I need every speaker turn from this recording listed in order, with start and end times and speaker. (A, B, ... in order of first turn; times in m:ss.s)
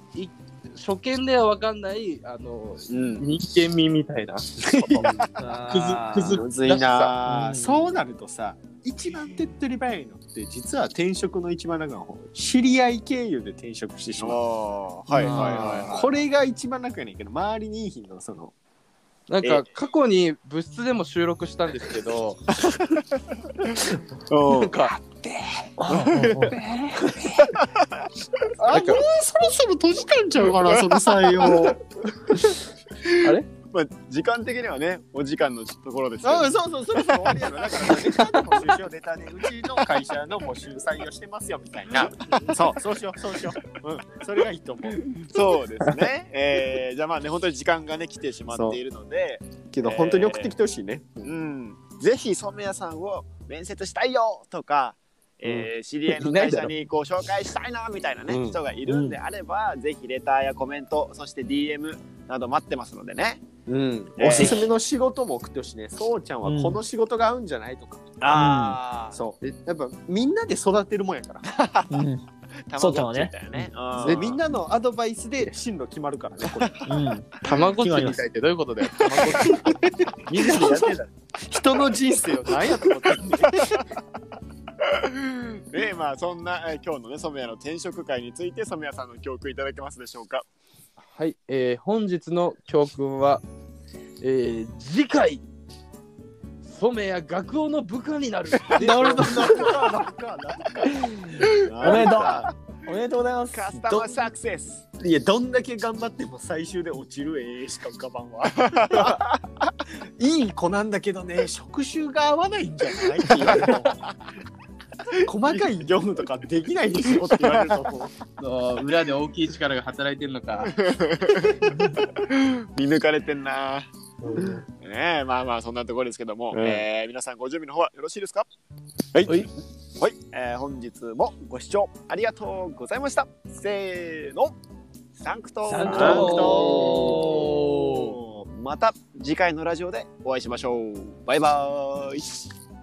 0:00.1-0:05.1 A
0:02.9-0:03.2 B
0:05.0-0:05.3 B
0:05.4-0:06.4 C
0:05.7-0:06.4 A
0:05.7-0:14.4 D
0:06.2-0:07.2 B
0:07.3-0:08.0 C
0:14.2-0:16.1 B
0:15.1-0:18.5 D
0:15.1-0:15.9 C
0:15.2-0:15.6 A
0:19.3-0:22.4 A
0:22.6-0:23.0 B
0:24.3-0:24.8 B
0:24.5-0:25.2 A
0:25.8-0:27.3 C
0:26.3-0:27.5 D
0:28.6-0:31.8 D
0:28.7-0:29.0 A
0:30.7-0:31.7 B
0:33.2-0:33.5 A
0:33.7-0:38.0 B
0:36.2-0:45.0 D
0:42.3-0:42.5 B
0:45.3-0:50.6 B
0:48.5-0:48.8 D
0:49.7-0:51.3 D
0:51.2-1:03.6 B
0:56.1-0:56.7 A
0:58.3-0:58.6 D
0:58.9-0:59.2 C
1:03.7-1:11.5 D
1:04.2-1:04.7 B
1:06.4-1:06.8 C
1:08.2-1:08.8 C
1:08.3-1:09.2 B
1:11.5-1:11.9 B
1:11.9-1:12.2 C
1:12.7-1:14.4 B
1:12.8-1:13.7 C
1:14.0-1:16.8 D
1:14.0-1:14.3 A
1:16.5-1:16.8 B
1:16.8-1:18.2 C
1:17.4-1:19.7 A
1:20.3-1:21.1 A
1:21.4-1:23.8 D
1:25.0-1:30.4 B
1:31.2-1:33.4 A
1:34.2-1:35.4 A
1:36.6-1:39.8 A
1:38.8-1:42.5 D
1:38.8-1:39.4 B
1:41.0-1:44.3 C
1:41.5-1:42.5 B
1:43.5-1:44.9 B
1:45.0-1:49.2 D
1:48.7-1:49.2 B
1:50.2-1:54.0 D
1:55.2-1:58.1 D
1:57.3-1:57.8 B
1:58.4-2:00.8 A
2:00.7-2:03.9 B
2:04.3-2:04.6 C
2:04.8-2:08.5 B
2:06.5-2:06.8 D
2:10.0-2:14.6 B
2:15.2-2:22.5 B
2:15.7-2:18.2 C
2:15.8-2:18.0 D
2:15.9-2:17.0 A